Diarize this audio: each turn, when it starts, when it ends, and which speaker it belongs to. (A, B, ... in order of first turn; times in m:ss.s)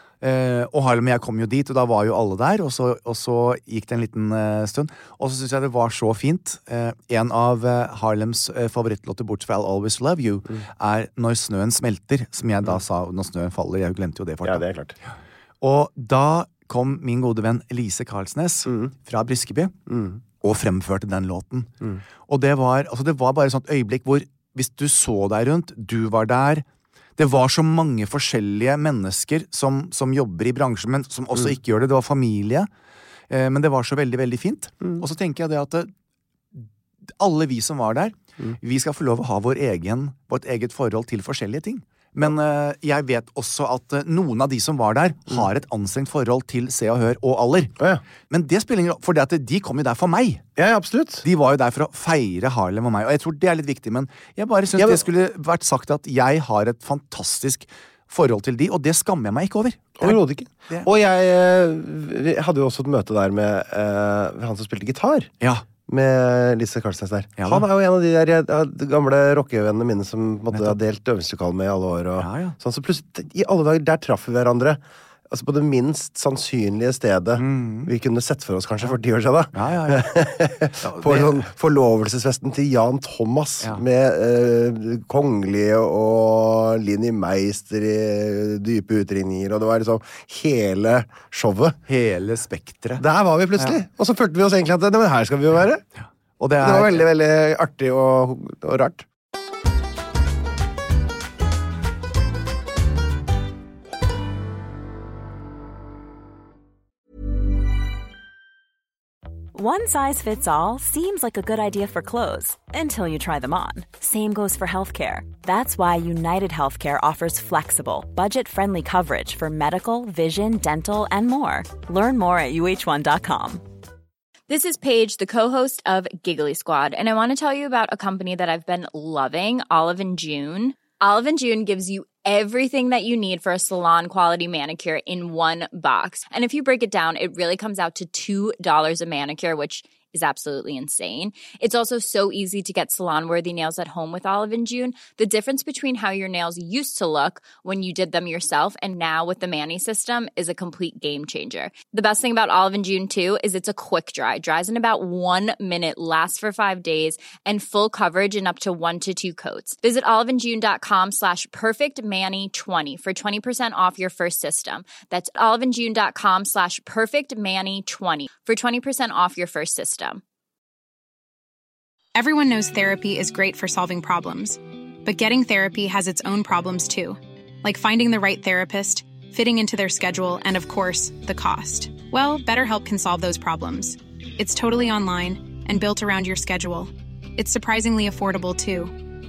0:00.2-0:14.6 A
0:14.4-0:15.0 B
0:15.6-0:19.8 A
0:18.7-0:18.9 B
0:19.9-0:20.2 B
0:20.4-0:21.7 A
0:22.3-0:26.6 A
0:27.2-0:32.7 A
0:33.3-0:35.9 A
0:37.2-0:47.8 A
0:48.3-0:50.4 A
0:50.6-0:51.2 B
0:51.2-1:00.9 A
0:54.8-0:55.0 B
1:00.0-1:05.3 B
1:05.9-1:31.8 B
1:07.4-1:07.7 A
1:10.5-1:10.8 A
1:12.2-1:12.6 A
1:17.4-1:17.9 A
1:19.5-1:20.2 A
1:20.8-1:21.4 A
1:31.9-1:33.0 A
1:33.0-1:35.8 B
1:36.4-1:37.0 A
1:36.6-1:39.1 B
1:49.5-2:03.6 C
2:04.5-2:50.2 D
2:52.2-3:09.0 E